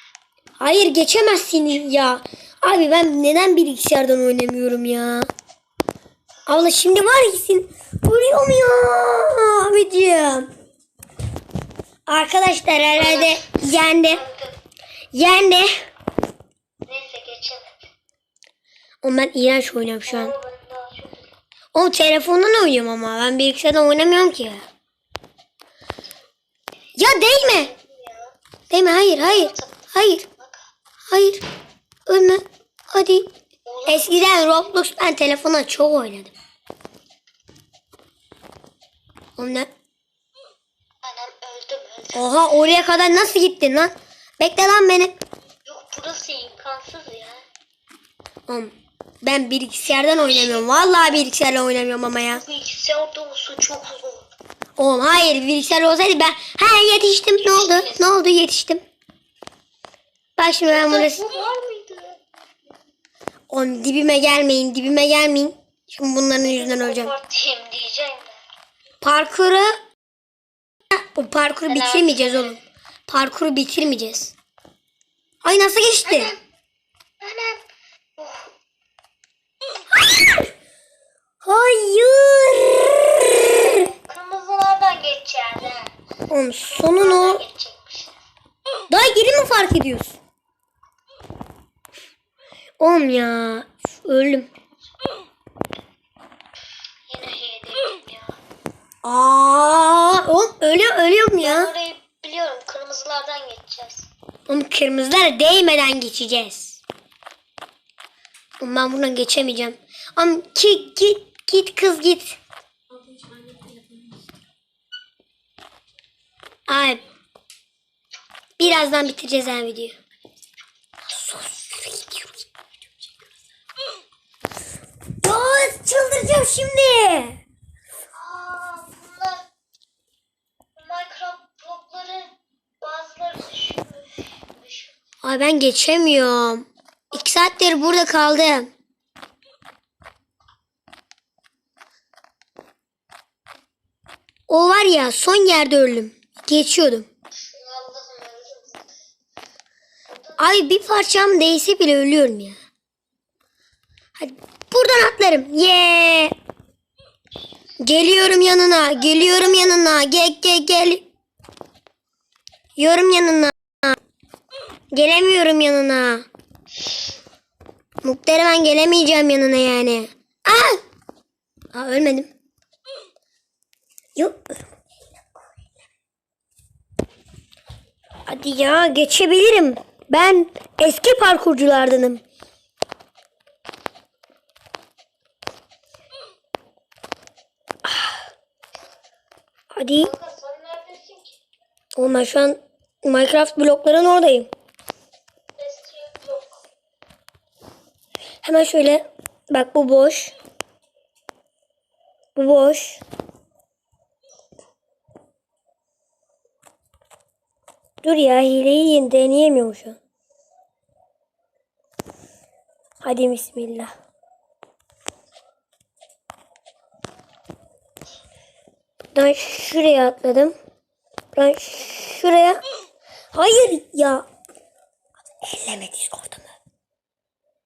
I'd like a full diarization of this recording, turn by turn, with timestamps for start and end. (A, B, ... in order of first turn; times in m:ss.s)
0:00.6-0:05.3 A
0:06.5-0:10.5 A
0:12.1-0:14.2 A
0:13.0-0:13.5 B
0:14.1-0:14.5 B
0:15.1-0:15.7 A
0:16.9-0:17.8 B
0:19.0-0:20.3 A
0:20.1-0:21.3 B
0:21.7-0:24.6 A
0:27.0-0:27.7 A
0:27.6-0:28.3 B
0:28.7-0:30.3 A
0:29.2-0:29.8 B
0:30.3-0:30.7 B
0:31.1-0:31.4 A
0:32.1-0:33.3 A
0:33.6-0:34.7 B
0:33.9-0:36.3 A
0:39.4-0:39.7 A
0:41.0-0:42.3 B
0:42.1-0:45.1 A
0:45.6-0:47.4 B
0:48.5-0:52.4 A
0:50.0-0:51.2 B
0:52.3-0:54.3 B
0:54.8-0:58.8 A
0:57.4-0:58.1 B
1:00.4-1:01.2 A
1:00.7-1:02.2 B
1:03.5-1:07.1 A
1:06.4-1:08.4 B
1:09.0-1:09.8 A
1:10.9-1:14.3 A
1:11.7-1:12.6 B
1:15.4-1:16.3 A
1:16.1-1:16.4 B
1:17.2-1:17.6 B
1:18.2-1:18.5 B
1:21.4-1:23.9 A
1:24.0-1:25.9 B
1:26.3-1:27.4 A
1:26.7-1:28.2 B
1:28.9-1:30.2 A
1:32.8-1:34.5 A
1:37.1-1:38.4 B
1:39.0-1:41.7 A
1:41.4-1:44.1 B
1:44.5-1:46.8 A
1:48.6-1:52.4 A
1:56.7-1:57.0 A
1:58.6-2:00.0 A
2:01.1-2:02.3 A
2:05.2-2:07.4 A
2:08.1-2:09.4 B
2:10.8-2:15.0 B
2:15.2-2:18.7 A
2:17.1-2:17.4 B
2:24.5-2:27.1 A
2:27.3-2:28.8 B
2:30.2-2:30.8 B
2:30.4-2:32.6 A
2:34.2-2:36.3 A
2:37.8-2:41.0 A
2:39.1-2:39.7 B
2:42.8-2:44.0 A
2:44.9-2:46.3 A
2:48.0-2:50.8 A
2:51.7-2:52.3 A
2:54.2-2:54.6 A
2:58.3-3:02.2 A
3:07.9-3:08.2 A
3:09.8-3:10.1 A
3:10.0-3:11.4 B
3:12.0-3:14.5 A
3:15.6-3:16.6 B
3:18.4-3:20.3 A
3:22.4-3:23.0 A
3:28.0-3:30.0 A
3:33.0-3:33.9 A
3:39.1-3:40.5 A
3:41.4-3:42.6 A
3:43.3-3:44.2 A
3:45.4-3:46.5 A